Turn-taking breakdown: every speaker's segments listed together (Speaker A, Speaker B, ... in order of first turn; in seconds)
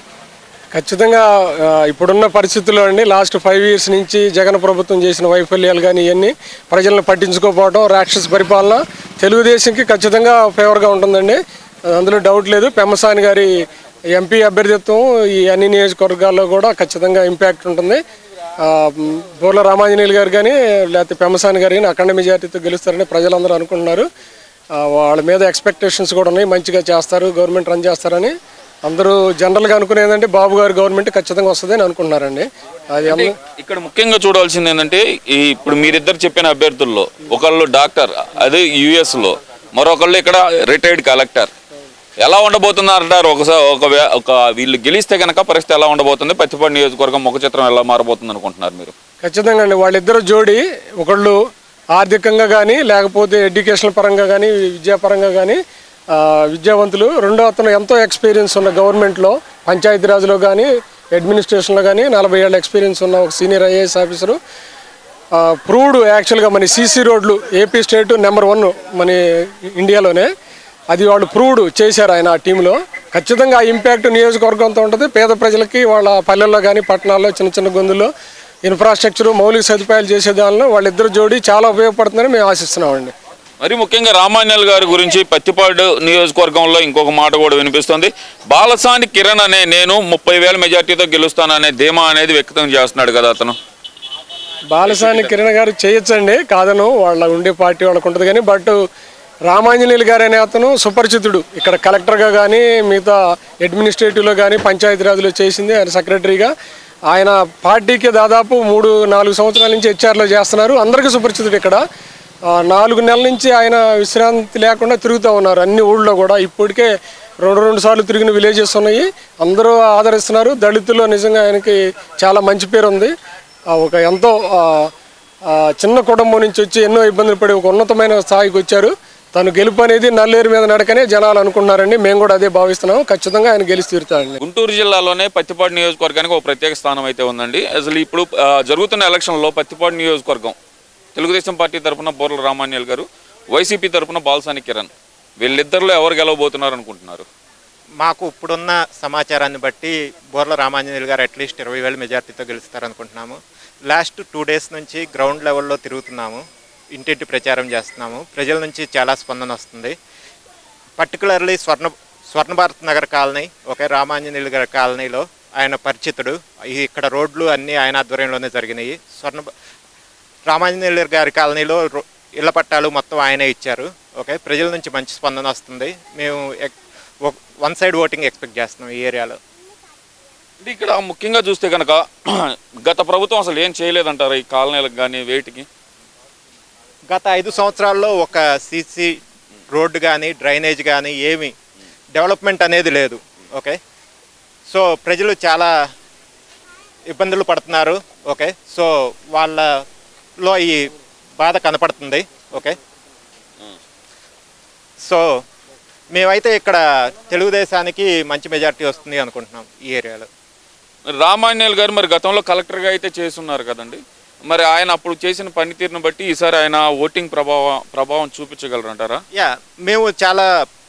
Speaker A: 0.7-18.0, 18.6-24.1, 24.8-28.4, 28.9-33.3, 49.2-51.4, 51.9-55.6, 56.1-64.4, 65.3-70.3, 70.9-78.1, 78.6-83.1, 94.7-98.8, 99.5-106.5, 107.1-111.8, 112.5-123.1, 123.7-124.9, 125.5-134.4
Speaker B: 33.1-41.5, 42.2-48.9, 83.6-93.5, 94.8-95.3, 134.4-140.6, 141.1-144.9, 145.4-147.2, 180.6-185.7, 211.1-219.2
Speaker C: 148.0-156.4, 156.9-159.9, 161.0-169.5, 170.5-179.4, 187.1-189.2, 189.7-191.5, 192.1-193.8, 194.7-195.7, 197.1-199.8, 200.4-202.8, 205.0-205.4, 206.1-210.3, 219.3-220.5